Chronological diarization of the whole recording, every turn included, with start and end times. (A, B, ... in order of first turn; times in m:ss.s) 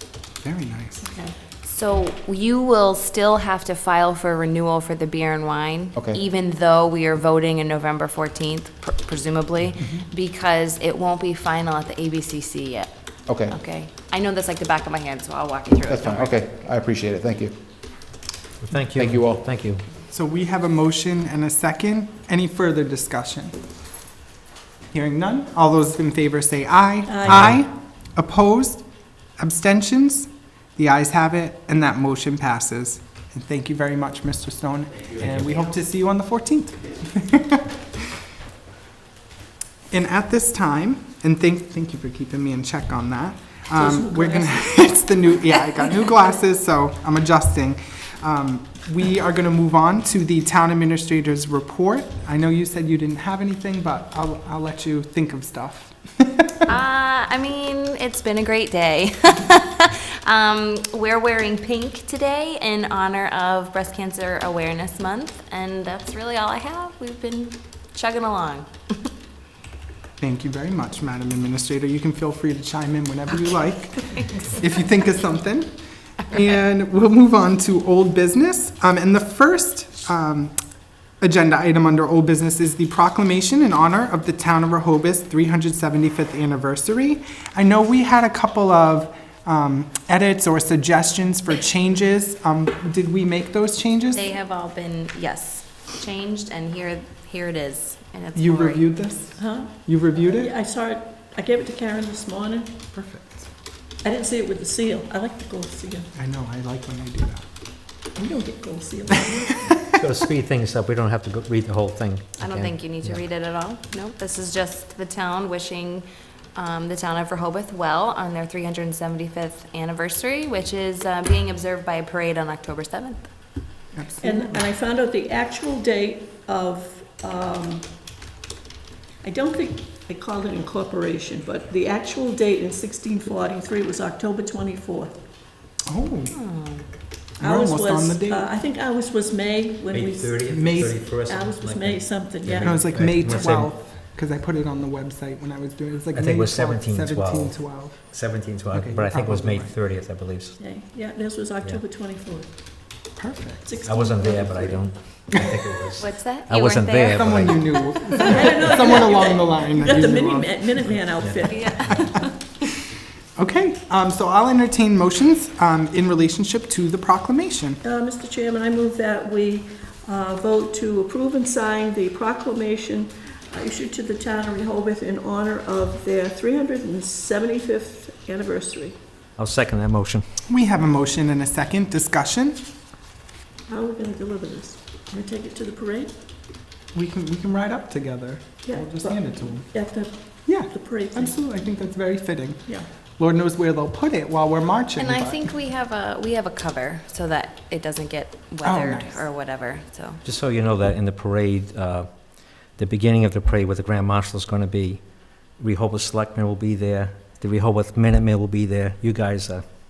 0:00.4-0:01.1 A
0:01.1-0:01.3 B
0:01.6-0:12.9 C
0:09.8-0:10.1 A
0:13.3-0:13.6 D
0:13.5-0:16.4 C
0:15.9-0:17.5 D
0:18.6-0:19.8 E
0:19.0-0:19.4 D
0:20.1-0:23.6 A
0:24.9-0:28.9 A
0:27.1-0:27.5 B
0:27.3-0:27.6 E
0:29.4-0:37.7 A
0:35.2-0:35.7 E
0:39.9-0:56.6 A
0:43.7-0:45.1 B
0:56.7-1:09.1 C
1:10.2-1:15.7 A
1:16.2-1:20.6 A
1:21.2-1:34.3 A
1:34.1-1:39.1 C
1:38.4-1:40.5 A
1:39.4-1:42.8 B
1:42.9-1:43.5 A
1:44.0-1:46.1 B
1:46.2-1:47.5 A
1:48.2-1:49.8 B
1:49.9-1:53.2 E
1:52.4-2:03.3 C
2:03.9-2:04.7 A
2:04.2-2:07.9 B
2:09.2-2:15.1 B
2:15.9-2:16.4 A
2:16.3-2:16.9 C
2:17.4-2:18.5 A
2:17.4-2:23.6 B
2:19.9-2:23.8 E
2:20.5-2:21.0 A
2:22.6-2:28.0 A
2:26.1-2:30.6 E
2:28.7-2:29.7 A
2:30.6-2:32.5 B
2:33.2-2:33.7 A
2:33.6-2:34.9 B
2:33.8-2:37.7 E
2:36.0-2:38.3 C
2:37.1-2:40.9 A
2:38.2-2:42.3 B
2:41.2-2:42.0 E
2:41.4-2:42.3 C
2:43.4-2:47.8 A
2:47.8-2:59.0 B
2:59.4-3:00.2 E
3:00.5-3:02.6 A
3:03.7-3:06.1 B
3:06.9-3:09.7 A
3:08.6-3:11.4 B
3:10.5-3:15.5 A
3:15.0-3:20.2 C
3:18.6-3:19.3 A
3:20.2-3:29.6 E